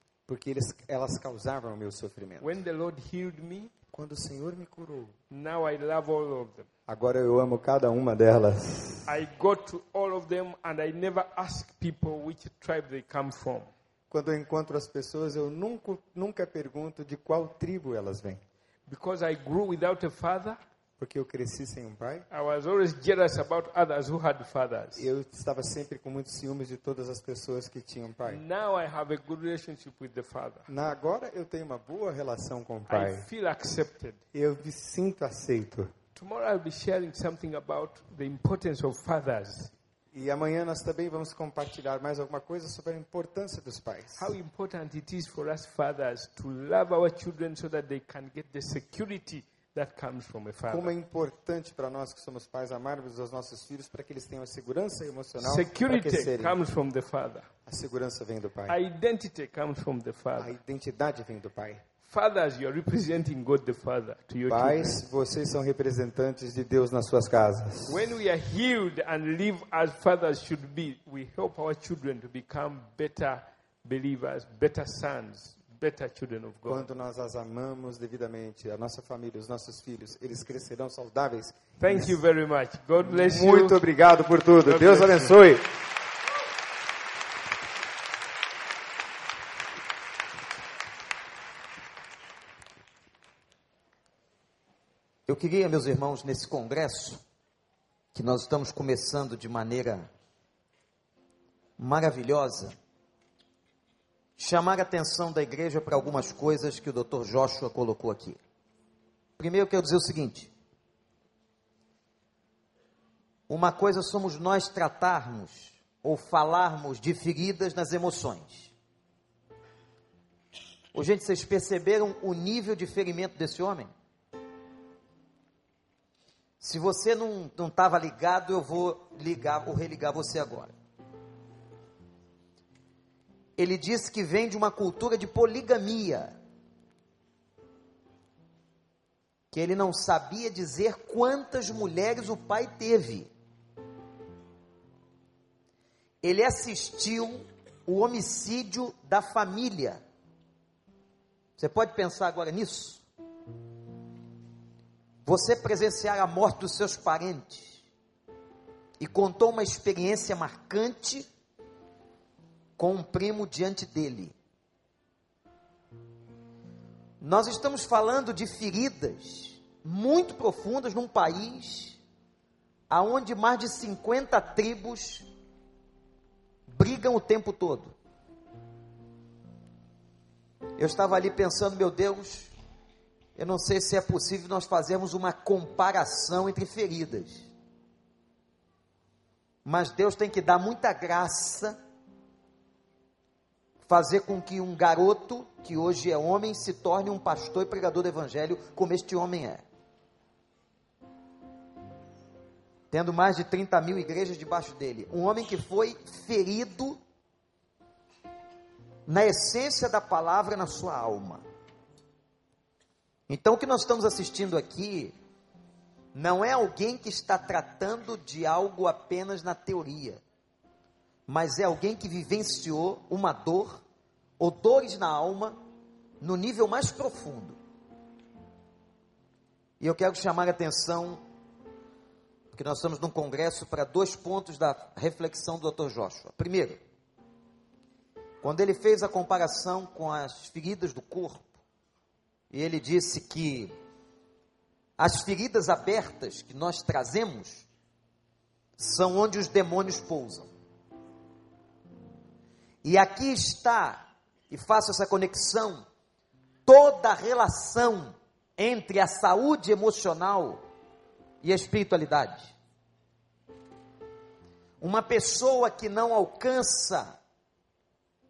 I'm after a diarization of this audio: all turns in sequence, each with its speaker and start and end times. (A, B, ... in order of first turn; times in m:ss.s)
0:00.3-0:02.5 A
0:02.4-0:03.7 B
0:03.9-0:05.1 A
0:05.3-0:06.7 B
0:06.9-0:09.1 A
0:09.1-0:13.7 B
0:14.1-0:18.4 A
0:18.9-0:20.6 B
0:21.0-0:22.3 A
0:22.3-0:25.1 B
0:25.0-0:28.4 A
0:28.3-0:30.7 B
0:30.7-0:33.3 A
0:32.9-0:34.2 B
0:34.3-0:35.9 A
0:36.2-0:39.7 B
0:40.1-0:44.3 A
0:44.2-0:50.9 B
0:50.7-0:56.6 A
0:55.4-0:57.5 B
0:57.7-0:58.8 A
0:58.7-1:00.6 B
1:00.4-1:01.8 A
1:02.0-1:05.0 B
1:04.5-1:08.1 A
1:07.9-1:16.9 B
1:16.7-1:22.2 A
1:21.8-1:23.8 B
1:23.0-1:25.7 A
1:24.6-1:25.4 B
1:35.3-1:37.2 C
1:38.1-1:40.1 C
1:41.8-1:42.8 C
1:44.4-1:48.4 C
1:49.4-1:50.5 C
1:53.5-1:58.7 C
2:00.9-2:03.9 C
2:06.6-2:10.7 C
2:13.6-2:16.3 C
2:19.5-2:23.3 C
2:26.2-2:30.0 C
2:31.6-2:33.0 C
2:35.2-2:37.8 C
2:39.0-2:41.3 C
2:42.8-2:44.3 C
2:47.2-2:52.0 C
2:52.9-2:55.3 C
2:56.7-2:57.9 C
3:00.8-3:02.5 C
3:03.4-3:07.5 C
3:09.6-3:11.8 C
3:13.8-3:19.6 C
3:22.9-3:27.0 C
3:29.1-3:31.4 C
3:33.3-3:35.1 C
3:36.1-3:40.2 C
3:41.3-3:43.8 C
3:44.4-3:45.6 C
3:46.2-3:47.6 C
3:49.8-3:51.2 C
3:52.5-3:56.8 C
3:58.4-4:01.5 C
4:02.5-4:03.7 C
4:05.0-4:07.7 C
4:08.8-4:10.5 C
4:12.8-4:15.8 C
4:16.7-4:20.6 C
4:21.4-4:22.5 C
4:24.8-4:27.1 C